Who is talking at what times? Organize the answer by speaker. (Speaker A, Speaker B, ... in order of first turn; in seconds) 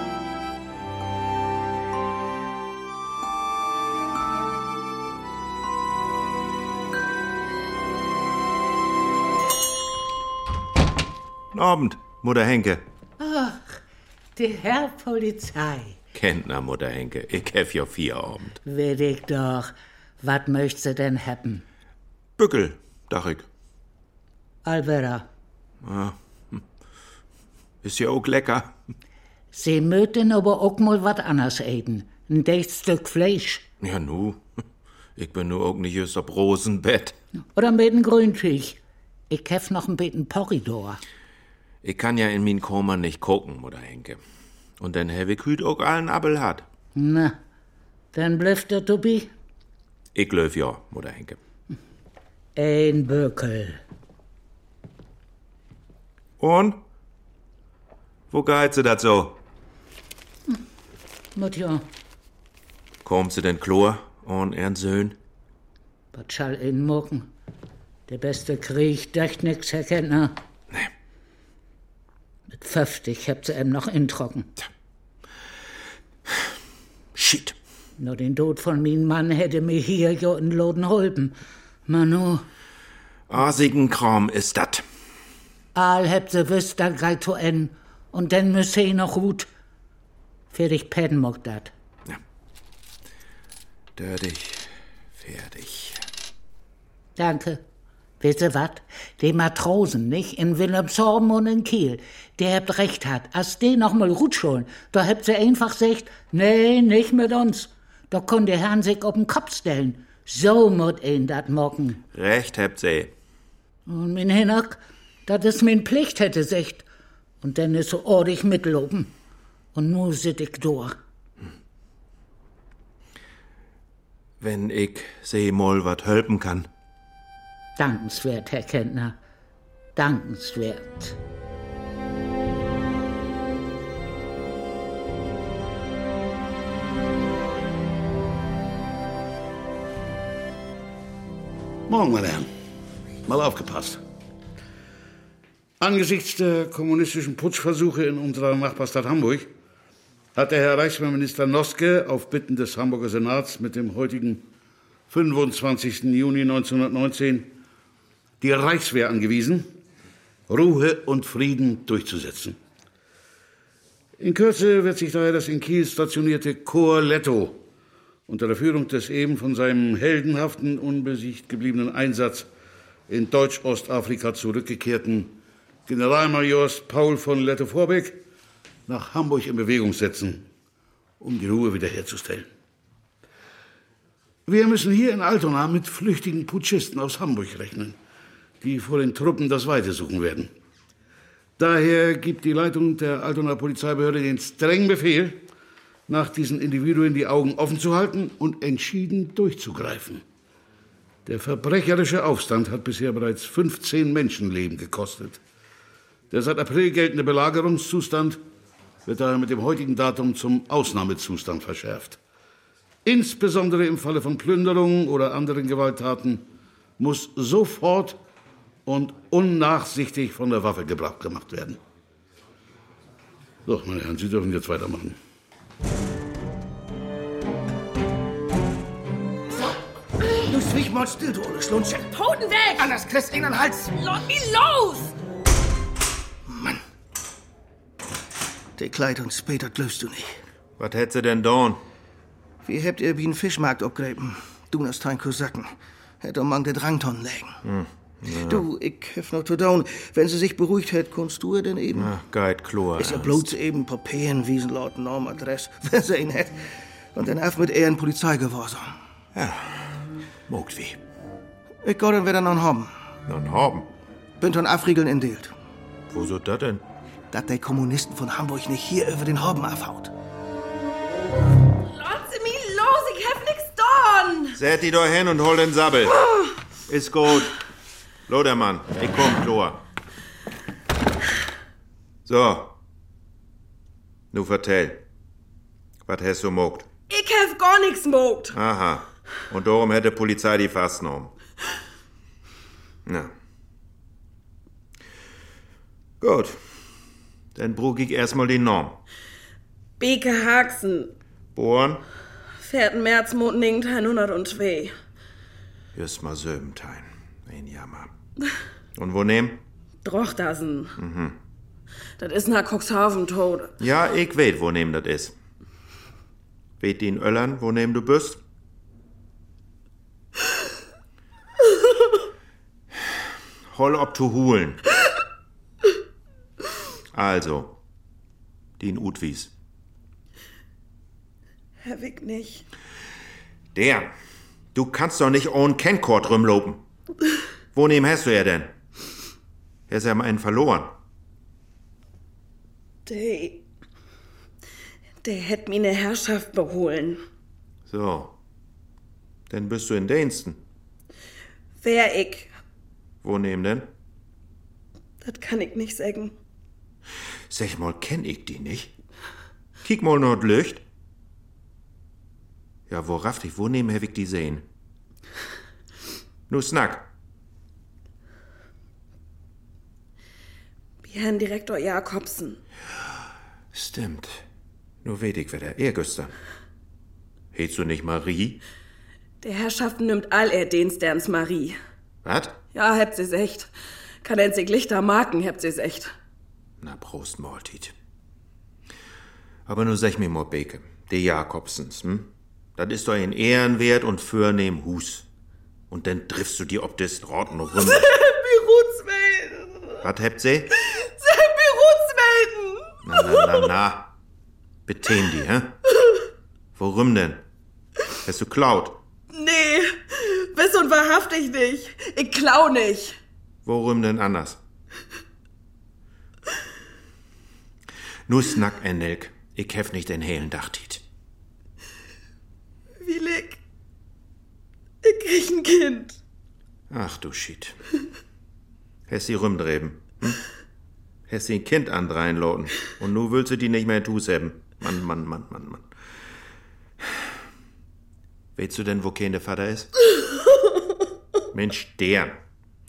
Speaker A: 11.5-12.8, 16.1-18.6, 22.4-23.5, 25.8-26.6, 27.8-28.7, 33.8-34.4, 35.2-37.1, 41.8-44.2, 44.8-46.6, 50.1-51.4, 56.4-56.8, 58.3-59.4, 63.0-65.2, 77.2-77.5, 83.3-84.8, 94.0-96.0, 112.1-113.1, 124.4-126.7, 240.8-241.8, 247.6-248.7, 251.9-253.5, 259.4-261.0, 263.3-263.9, 266.1-266.8, 274.6-276.2, 276.9-277.6, 278.3-279.8, 282.3-282.8, 284.3-285.0, 286.1-286.9, 288.5-291.3, 293.1-293.3, 296.2-296.6, 297.6-299.0, 301.6-302.0, 305.9-308.1, 309.0-309.6, 311.0-311.4, 313.8-315.4, 316.8-318.4, 323.7-324.8, 327.1-327.8, 328.8-329.5, 333.8-334.1, 334.7-336.8, 337.7-338.7, 339.9-340.9, 347.9-348.4, 349.5-350.6, 353.2-353.9, 357.5-358.9, 359.8-360.8, 362.9-364.6, 366.5-367.1, 373.7-374.4, 375.0-376.3, 377.5-378.6, 382.2-382.6, 386.8-387.9, 389.7-395.3, 395.9-398.1, 400.0-400.7, 403.0-404.1, 404.9-405.8, 406.8-407.4, 408.2-409.0, 413.6-414.6, 418.3-421.0, 426.9-427.8, 429.1-430.4, 431.3-435.9, 438.6-439.9, 441.5-442.4
Speaker B: 13.2-13.8, 14.4-16.0, 18.6-21.6, 24.6-25.3, 29.5-33.6, 37.5-38.8, 39.3-41.0, 47.0-47.4, 48.1-49.3, 52.6-53.8, 61.4-61.9, 66.1-67.3, 68.1-70.4, 72.6-74.5, 78.0-81.4, 81.9-82.5, 85.8-89.5, 90.5-91.7, 97.2-97.6, 98.2-112.0, 113.9-116.8, 117.4-119.1, 119.7-121.0, 127.8-129.2, 130.0-131.2
Speaker C: 141.9-142.5, 143.3-144.0, 145.8-149.5, 150.3-154.4, 155.1-157.5, 158.4-159.7, 160.5-162.6, 164.2-167.6, 168.3-172.5, 173.1-175.3, 175.9-178.2, 178.9-180.4, 181.2-182.5, 184.5-188.0, 188.6-190.5, 191.6-195.4, 196.1-200.2, 201.3-205.4, 206.3-208.4, 209.1-212.2, 213.1-216.4, 217.0-218.2, 218.9-221.8, 223.7-225.2
Speaker D: 230.4-234.6, 236.5-236.8, 238.8-240.3, 242.6-247.6, 248.4-252.2, 253.0-259.0, 261.8-262.9, 264.4-265.5, 267.3-270.1
Speaker E: 271.9-274.6, 287.1-288.6, 300.0-301.1, 302.6-304.9, 310.0-311.0, 312.2-313.7, 331.8-332.6, 343.1-343.6, 345.2-347.2, 351.8-352.5, 355.2-356.4, 371.0-372.6, 379.4-381.8, 382.7-383.7, 384.2-386.1, 397.8-400.0, 400.8-403.6, 409.3-413.2, 423.0-423.6, 425.0-426.2